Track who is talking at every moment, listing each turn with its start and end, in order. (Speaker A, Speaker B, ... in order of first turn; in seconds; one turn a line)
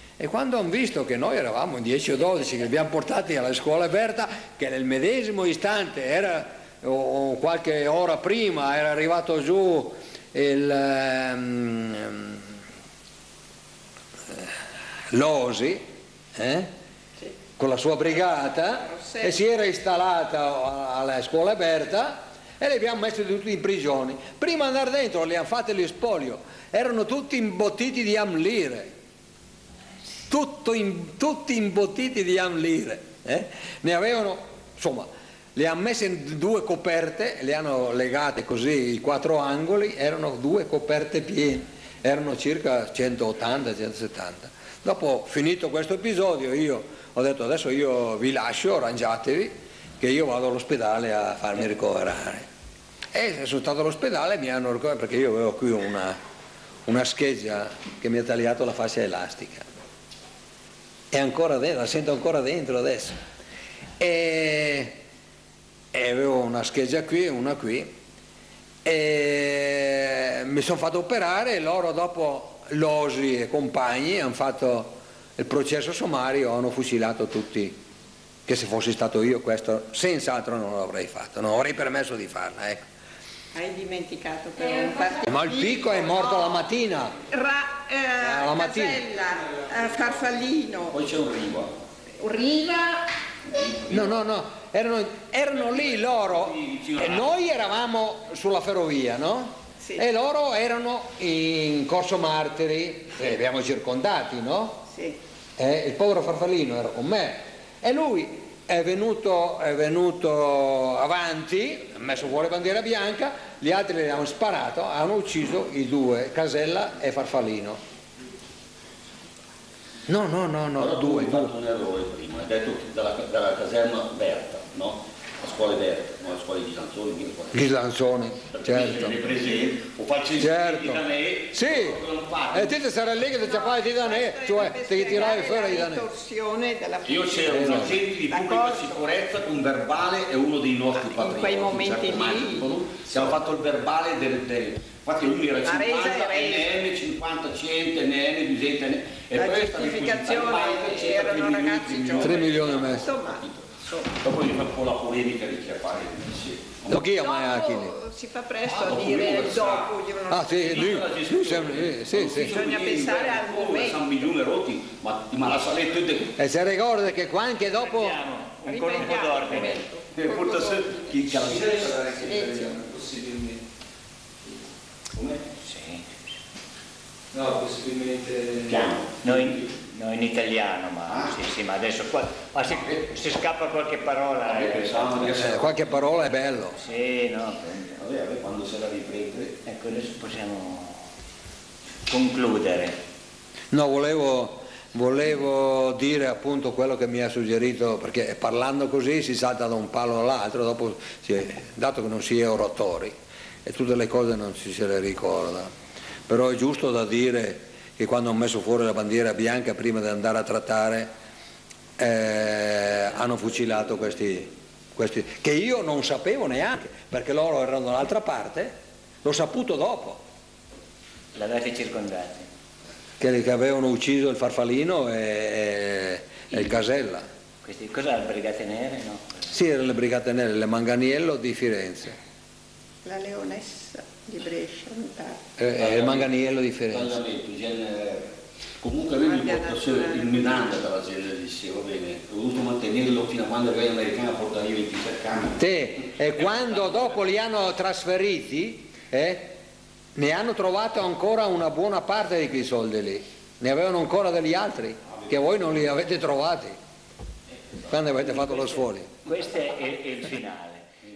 Speaker A: 0.2-12.4
Speaker A: 15.1-15.8
Speaker A: 16.4-16.7
Speaker A: 17.6-28.9
Speaker B: 18.8-19.4
Speaker A: 30.3-52.5
Speaker A: 53.1-56.2
Speaker A: 56.9-59.6
Speaker A: 61.1-63.2
Speaker A: 64.0-65.0
Speaker A: 65.9-67.9
Speaker A: 68.8-77.8
Speaker A: 78.5-82.8
Speaker B: 83.5-86.6
Speaker A: 85.2-87.2
Speaker B: 87.3-91.0
Speaker A: 88.2-89.0
Speaker C: 90.9-91.7
Speaker B: 92.2-93.1
Speaker C: 93.5-94.2
Speaker A: 93.9-104.8
Speaker C: 95.8-97.3
Speaker B: 104.9-105.2
Speaker A: 105.6-117.8
Speaker A: 120.1-121.5
Speaker C: 120.8-127.7
Speaker A: 127.5-129.2
Speaker C: 128.5-132.7
Speaker A: 130.4-136.1
Speaker B: 133.4-139.0
Speaker C: 137.0-157.0
Speaker A: 137.4-138.0
Speaker B: 141.0-142.7
Speaker B: 145.6-146.7
Speaker B: 149.3-154.1
Speaker A: 152.2-153.1
Speaker A: 156.9-157.9
Speaker B: 157.1-160.9
Speaker C: 158.6-159.9
Speaker A: 160.3-162.5
Speaker C: 160.6-166.3
Speaker B: 162.3-164.2
Speaker A: 166.3-168.2
Speaker D: 167.8-169.8
Speaker B: 168.7-171.0
Speaker C: 170.2-172.3
Speaker A: 171.1-173.6
Speaker B: 172.4-172.7
Speaker C: 175.1-175.4
Speaker D: 175.6-176.0
Speaker A: 177.3-178.9
Speaker C: 178.7-179.7
Speaker D: 179.2-185.5
Speaker C: 181.1-181.3
Speaker C: 184.5-185.8
Speaker A: 185.4-186.8
Speaker D: 186.8-188.0
Speaker C: 188.0-189.6
Speaker D: 189.6-191.0
Speaker D: 192.1-193.0
Speaker A: 193.7-205.7
Speaker A: 206.3-211.1
Speaker A: 212.0-220.2
Speaker D: 221.3-222.5
Speaker A: 223.2-227.2
Speaker D: 227.6-229.5
Speaker A: 229.5-232.2
Speaker B: 233.0-235.4
Speaker A: 235.6-237.2
Speaker C: 235.8-236.3
Speaker C: 236.9-245.6
Speaker B: 239.2-240.5
Speaker A: 245.6-249.6
Speaker C: 246.4-247.0
Speaker A: 250.1-256.8
Speaker A: 257.9-259.1
Speaker D: 258.5-260.8